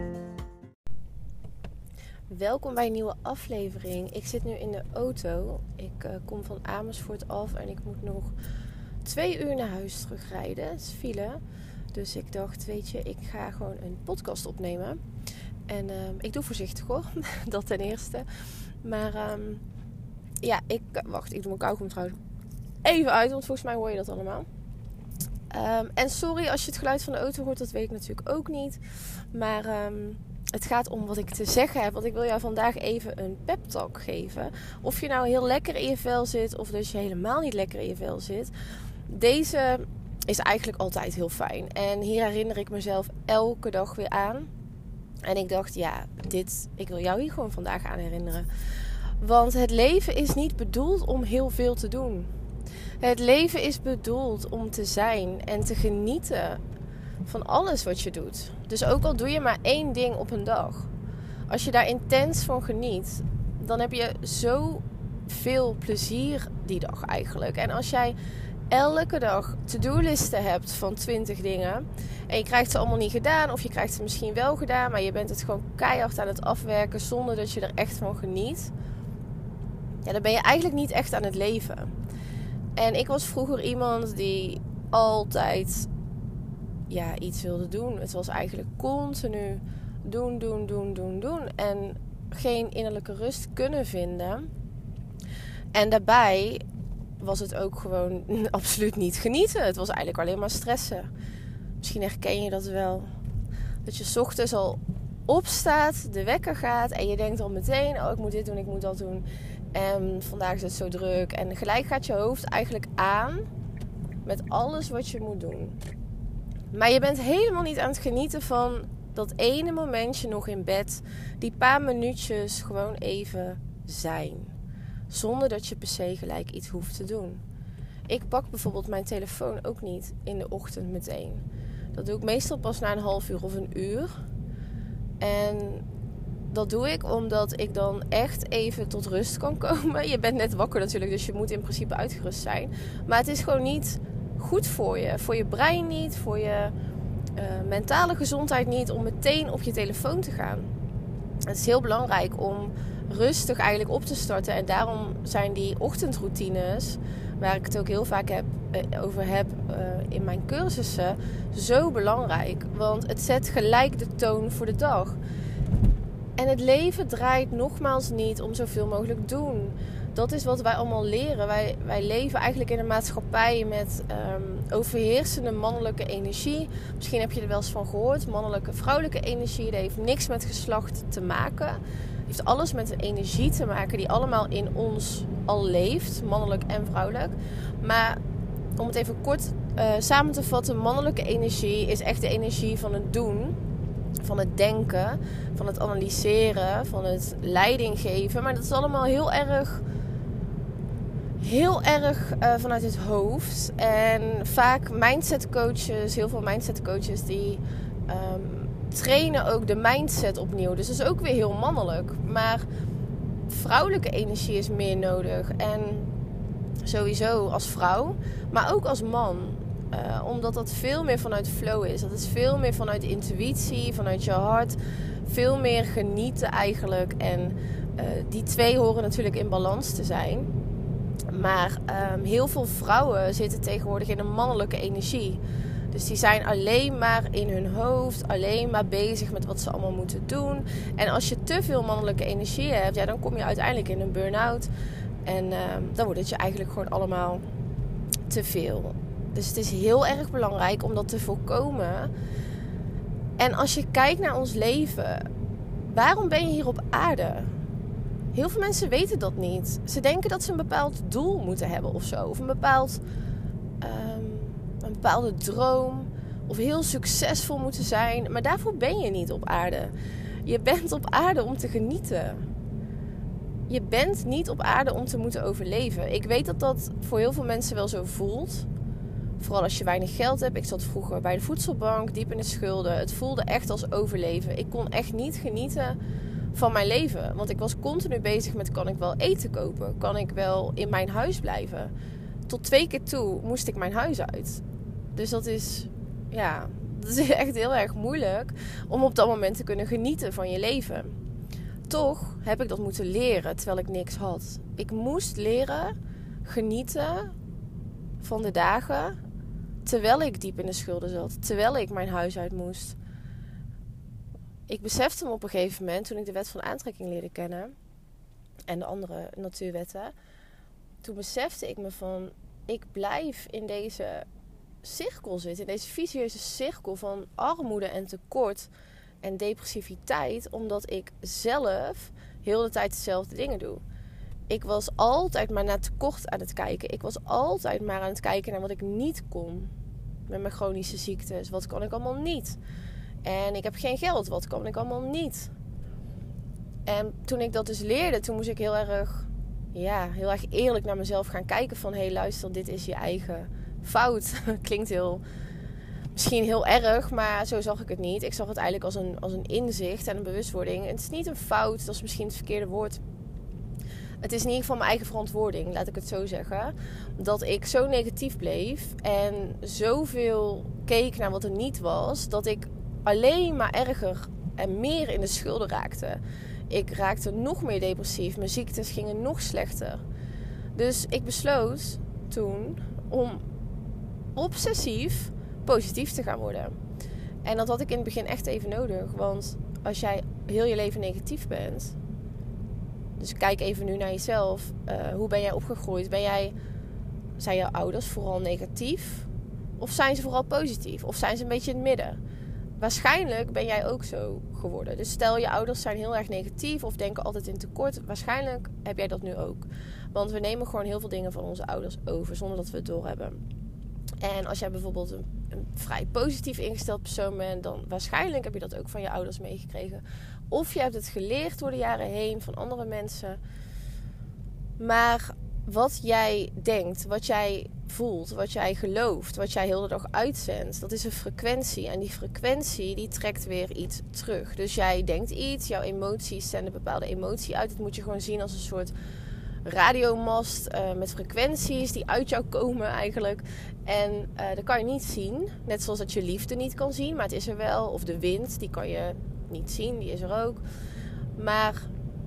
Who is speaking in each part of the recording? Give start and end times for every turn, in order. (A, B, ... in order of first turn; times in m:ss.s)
0:02.3-0:08.3 A
0:09.0-0:11.4 A
0:11.9-0:15.0 A
0:15.7-0:18.3 A
0:18.8-0:19.6 A
0:20.4-0:22.2 A
0:22.8-0:24.5 A
0:25.5-0:38.5 A
0:39.1-0:44.5 A
0:45.2-0:48.5 A
0:49.2-0:52.3 A
0:53.0-0:56.6 A
0:57.2-1:00.9 A
1:01.5-1:08.2 A
1:08.7-1:18.7 A
1:20.0-1:22.0 A
1:22.8-1:25.9 A
1:26.9-1:34.5 A
1:35.7-1:36.6 A
1:37.2-1:41.1 A
1:41.8-1:43.1 A
1:43.8-1:53.5 A
1:54.2-1:55.8 A
1:56.7-2:04.6 A
2:05.1-2:07.4 A
2:08.1-2:14.1 A
2:15.2-2:15.8 A
2:16.5-2:26.7 A
2:27.4-2:30.7 A
2:31.4-2:45.2 A
2:46.4-3:08.2 A
3:08.8-3:13.6 A
3:14.2-3:19.8 A
3:21.4-3:32.6 A
3:33.5-3:36.1 A
3:36.8-3:50.5 A
3:51.3-3:55.4 A
3:55.9-4:04.7 A
4:05.3-4:07.4 A
4:08.3-4:12.1 A
4:13.4-4:15.3 A
4:15.9-4:17.5 A
4:18.3-4:23.0 A
4:23.8-4:29.9 A
4:30.4-4:32.5 A
4:33.7-4:38.7 A
4:39.4-4:46.0 A
4:46.5-4:51.9 A
4:52.5-4:54.6 A
4:55.2-5:01.2 A
5:01.9-5:07.3 A
5:08.2-5:09.2 A
5:09.8-5:13.0 A
5:14.7-5:17.8 A
5:18.7-5:20.1 A
5:21.0-5:24.3 A
5:24.8-5:28.7 A
5:29.2-5:33.8 A
5:34.5-5:39.7 A
5:40.3-5:42.6 A
5:43.2-5:45.5 A
5:46.9-5:55.2 A
5:56.2-6:03.0 A
6:04.2-6:20.0 A
6:20.8-6:23.4 A
6:24.4-6:26.8 A
6:27.4-6:32.0 A
6:33.2-6:36.5 A
6:37.4-6:42.2 A
6:42.8-6:53.4 A
6:54.2-7:03.4 A
7:04.8-7:18.9 A
7:19.6-7:30.6 A
7:31.4-7:31.9 A